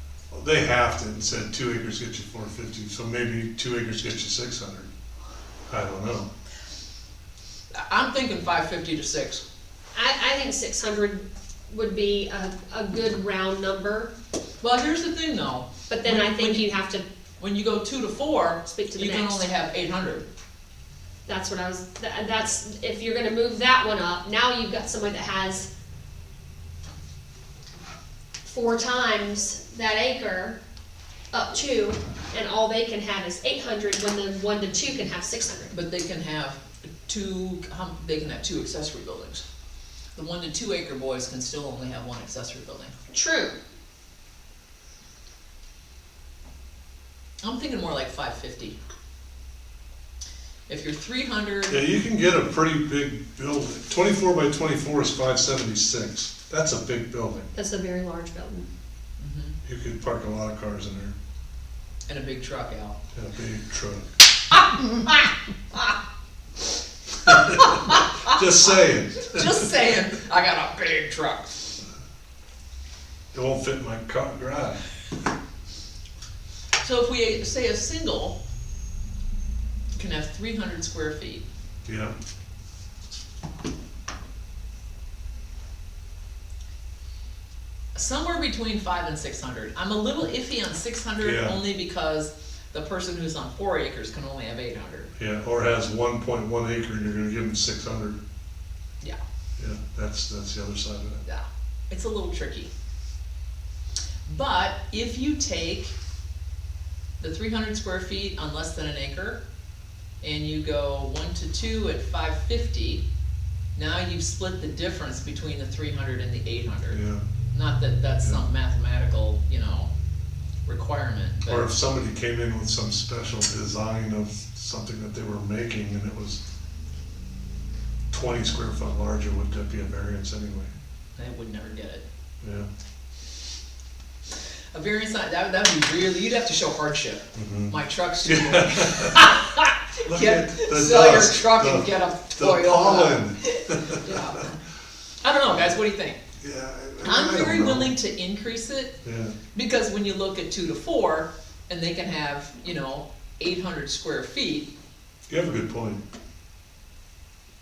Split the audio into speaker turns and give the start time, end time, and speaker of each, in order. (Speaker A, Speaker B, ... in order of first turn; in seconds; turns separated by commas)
Speaker A: 0.3-4.9, Speaker A: 5.7-6.3, Speaker B: 7.7-9.4, Speaker C: 9.9-14.1, Speaker B: 14.6-16.7, Speaker C: 15.9-17.0, Speaker B: 17.4-20.2, Speaker C: 18.6-19.4, Speaker C: 21.2-25.7, Speaker C: 28.4-30.6, Speaker C: 31.3-35.7, Speaker B: 35.7-39.4, Speaker B: 40.1-42.9, Speaker C: 43.1-43.6, Speaker B: 47.4-48.8, Speaker B: 50.7-51.8, Speaker A: 51.7-57.5, Speaker C: 57.5-58.6, Speaker B: 59.2-59.6, Speaker A: 59.6-61.1, Speaker B: 62.1-63.0, Speaker A: 63.1-64.1, Speaker B: 64.5-66.0, Speaker B: 67.2-68.4, Speaker A: 67.2-70.0, Speaker B: 69.2-71.8, Speaker A: 73.3-74.8, Speaker B: 76.8-78.4, Speaker B: 80.0-81.4, Speaker A: 81.8-82.1, Speaker B: 87.9-95.1, Speaker A: 91.2-91.6, Speaker A: 95.2-98.2, Speaker A: 99.6-101.2, Speaker B: 101.2-102.7, Speaker B: 104.2-105.9, Speaker B: 107.2-109.4, Speaker B: 110.2-113.0, Speaker B: 113.8-117.0, Speaker A: 116.9-117.2, Speaker B: 117.5-119.9, Speaker B: 120.7-121.7, Speaker A: 121.4-126.4, Speaker A: 128.1-130.7, Speaker B: 131.2-132.0, Speaker A: 132.4-132.7, Speaker B: 134.7-144.6, Speaker A: 137.3-139.3, Speaker A: 140.0-144.3, Speaker B: 145.2-146.2, Speaker A: 146.4-147.9, Speaker B: 147.0-148.9, Speaker A: 149.0-149.3, Speaker B: 149.5-154.7, Speaker A: 155.3-156.0